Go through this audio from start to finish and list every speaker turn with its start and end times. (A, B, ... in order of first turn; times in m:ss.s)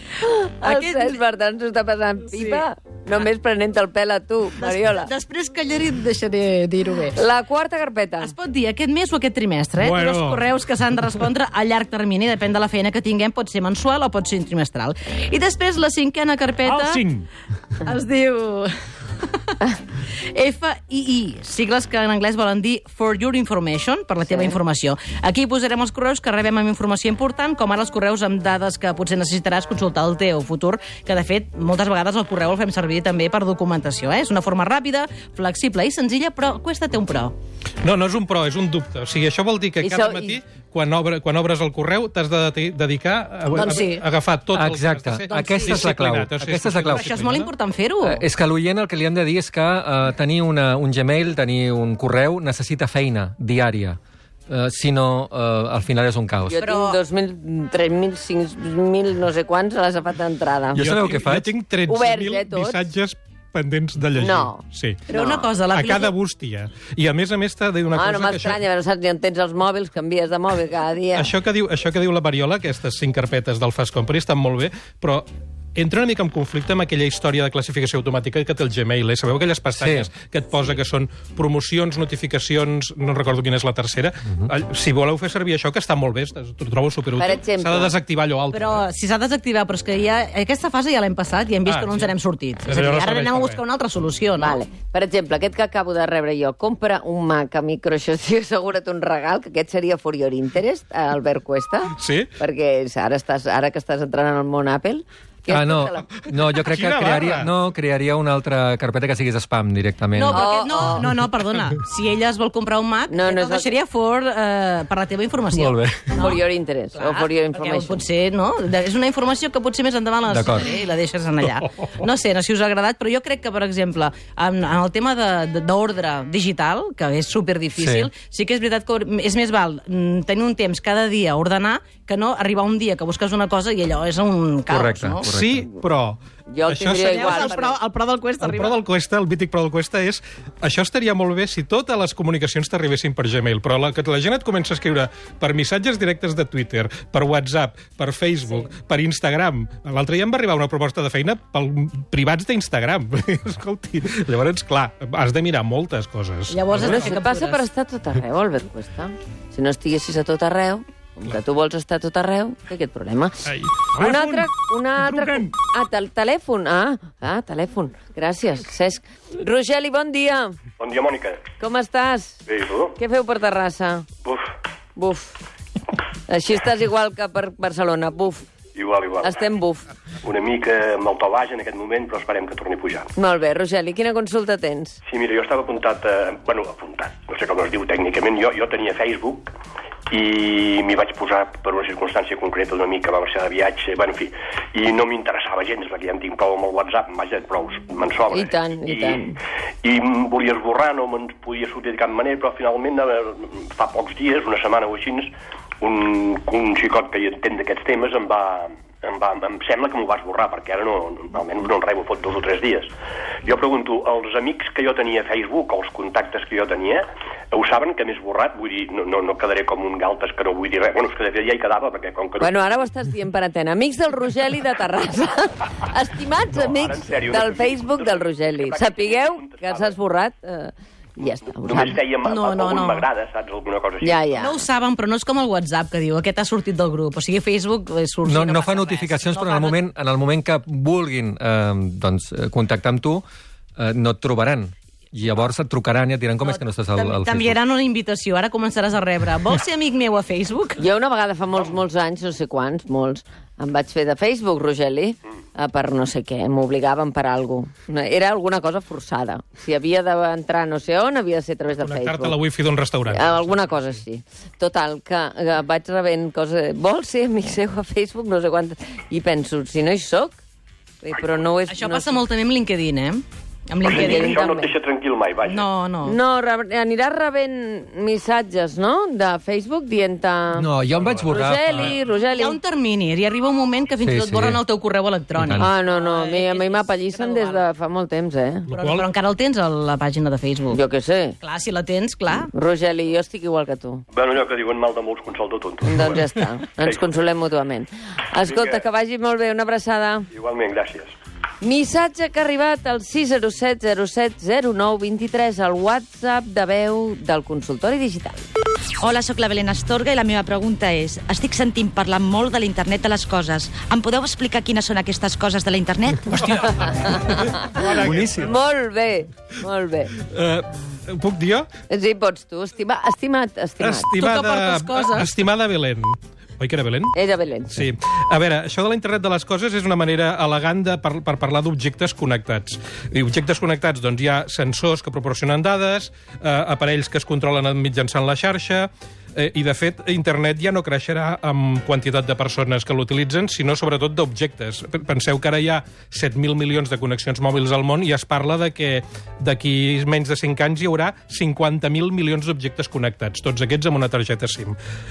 0:00.2-0:05.1 A
0:00.6-0:01.2 B
0:02.3-0:02.6 B
0:04.6-0:07.2 B
0:07.2-0:08.3 A
0:08.2-0:17.2 B
0:09.8-0:10.4 C
0:17.8-0:18.7 B
0:19.3-0:19.6 B
0:20.2-0:37.3 B
0:37.8-0:47.5 C
0:39.8-0:40.4 A
0:43.5-0:44.1 B
0:44.6-0:47.1 D
0:45.4-0:45.8 B
0:46.9-0:48.2 B
0:48.0-0:54.0 D
0:54.5-0:56.6 D
0:56.5-1:01.0 A
0:56.6-0:57.0 B
1:00.8-1:01.5 D
1:00.8-1:05.0 C
1:01.9-1:02.9 A
1:04.2-1:04.6 A
1:05.1-1:06.1 B
1:05.1-1:05.4 A
1:05.7-1:08.6 C
1:07.9-1:11.3 A
1:11.2-1:28.8 C
1:19.8-1:20.1 D
1:27.2-1:27.9 A
1:28.5-1:34.6 B
1:31.7-1:32.1 C
1:32.7-1:33.6 C
1:34.4-1:46.1 A
1:41.9-1:42.3 C
1:45.5-1:50.5 D
1:46.6-1:47.5 C
1:50.2-1:56.4 B
1:50.3-1:51.1 A
1:53.1-1:53.7 A
1:55.5-1:56.0 D
1:56.2-1:58.0 A
1:57.0-2:15.3 B
2:00.3-2:00.7 D
2:07.8-2:08.1 D
2:14.7-2:15.7 D
2:15.2-2:17.6 C
2:16.5-2:17.7 A
2:16.9-2:18.8 B
2:18.4-2:37.2 C
2:36.5-2:37.6 B
2:36.8-2:50.6 A
2:43.5-2:44.4 C
2:50.8-2:51.5 E
2:51.6-2:52.4 A
2:52.5-2:53.0 E
2:53.0-2:54.1 A
2:55.0-2:55.4 A
2:56.3-2:58.5 A
2:58.8-2:59.5 E
2:59.2-2:59.9 A
3:00.2-3:03.1 E
3:03.2-3:05.0 A
3:05.1-3:09.5 E
3:10.1-3:32.9 E
3:18.3-3:19.3 A
3:33.4-3:42.7 E
3:42.4-3:52.0 A
3:46.6-3:50.0 E
3:51.6-3:54.2 E
3:52.2-3:53.1 B
3:54.0-3:54.6 A
3:54.4-3:59.8 B
3:58.3-4:03.2 D
4:03.8-4:07.6 D
4:06.4-4:10.8 B
4:10.8-4:22.4 A
4:21.8-4:23.6 C
4:23.1-4:30.4 A
4:31.0-4:32.2 A
4:31.7-4:34.4 B
4:33.8-4:35.7 E
4:33.9-4:34.7 A
4:35.4-4:36.2 B
4:36.0-4:40.7 A
4:40.6-4:42.0 D
4:41.0-4:42.0 C
4:41.3-4:42.6 A
4:42.3-4:47.6 B
4:44.0-4:44.6 D
4:45.4-4:45.7 D
4:45.6-4:48.7 A
4:48.7-4:49.1 C
4:48.7-4:50.8 B
4:50.7-4:51.4 A
4:51.4-4:52.5 B
4:52.5-4:54.0 A
4:54.1-4:56.2 E
4:55.8-5:00.3 A
4:58.4-4:58.8 E
5:00.3-5:01.1 E
5:01.6-5:08.4 A
5:09.0-5:16.3 F
5:16.3-5:17.2 C
5:16.8-5:20.1 A
5:17.7-5:18.6 C
5:18.0-5:18.5 D
5:20.2-5:21.7 C
5:21.9-5:24.1 A
5:23.8-5:27.1 C
5:24.2-5:25.3 B
5:27.1-5:27.8 A
5:27.7-5:54.8 C